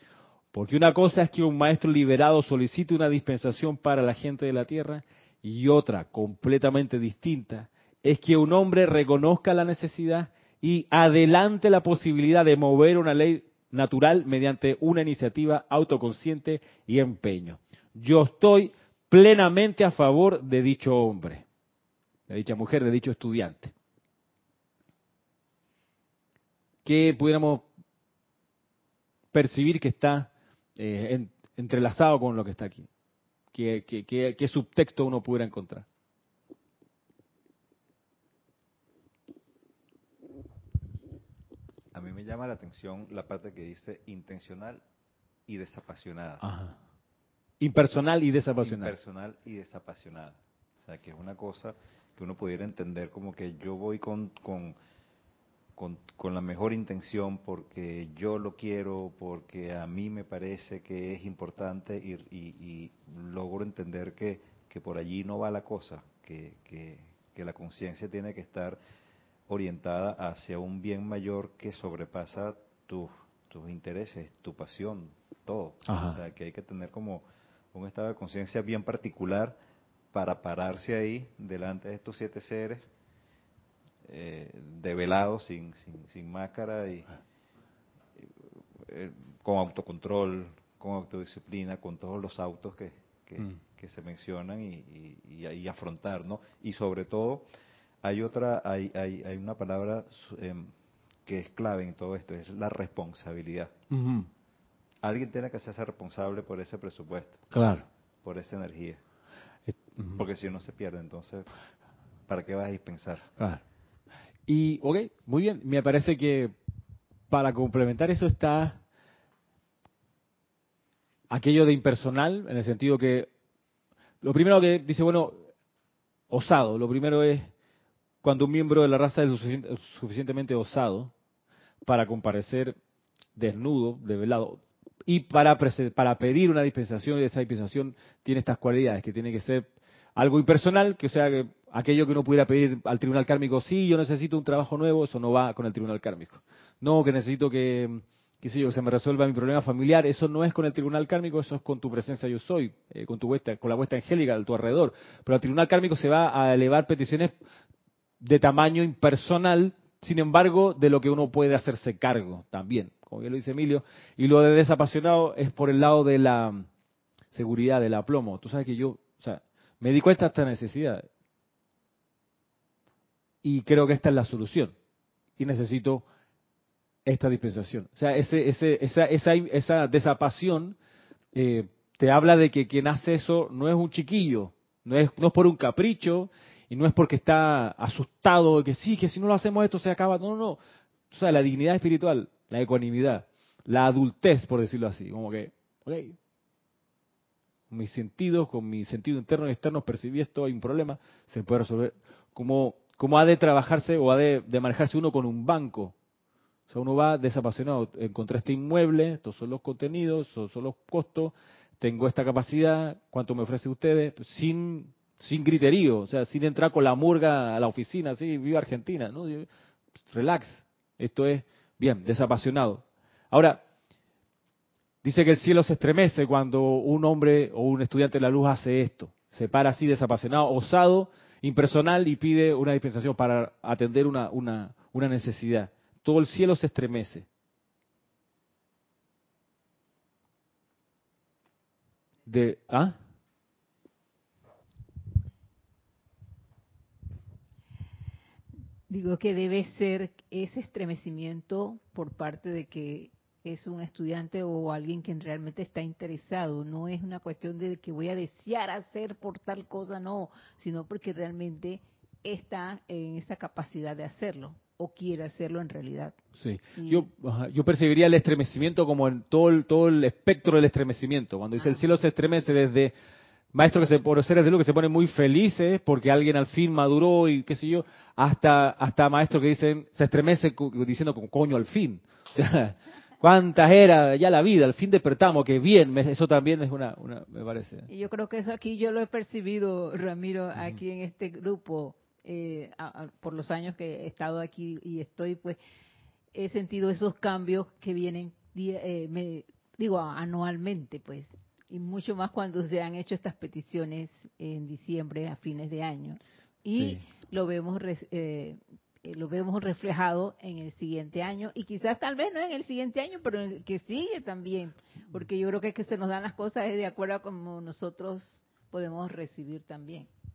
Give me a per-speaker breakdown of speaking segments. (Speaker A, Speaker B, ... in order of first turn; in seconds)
Speaker A: 0.5-21.4, 22.3-23.7, 26.8-27.7, 29.3-32.9, 33.5-35.9, 46.4-46.8, 47.6-48.9, 75.8-76.2, 103.9-104.3, 107.5-107.8, 109.7-110.2, 114.5-116.5, 117.3-118.8, 121.3-123.3, 124.2-125.5, 126.3-127.5, 128.2-131.1, 131.8-132.8, 133.3-157.3, 158.2-166.7, 167.3-171.0, 173.4-174.7, 175.4-176.0, 177.0-180.8, 181.3-190.6, 191.1-196.2, 197.7-205.9, 206.7-219.5, 220.1-223.6, 225.0-237.2, 242.3-242.9, 266.4-272.9, 273.5-287.9, 306.7-307.0
Speaker B: 41.9-44.8, 45.5-46.4, 48.6-54.8, 55.8-68.8, 69.5-79.6, 80.1-82.8, 84.0-87.2, 88.8-97.5, 98.0-100.7, 101.2-103.7, 105.0-107.5, 108.2-109.0, 110.1-111.5, 112.3-113.3
Speaker C: 248.9-266.1, 266.8-267.1, 287.9-295.6, 296.3-320.1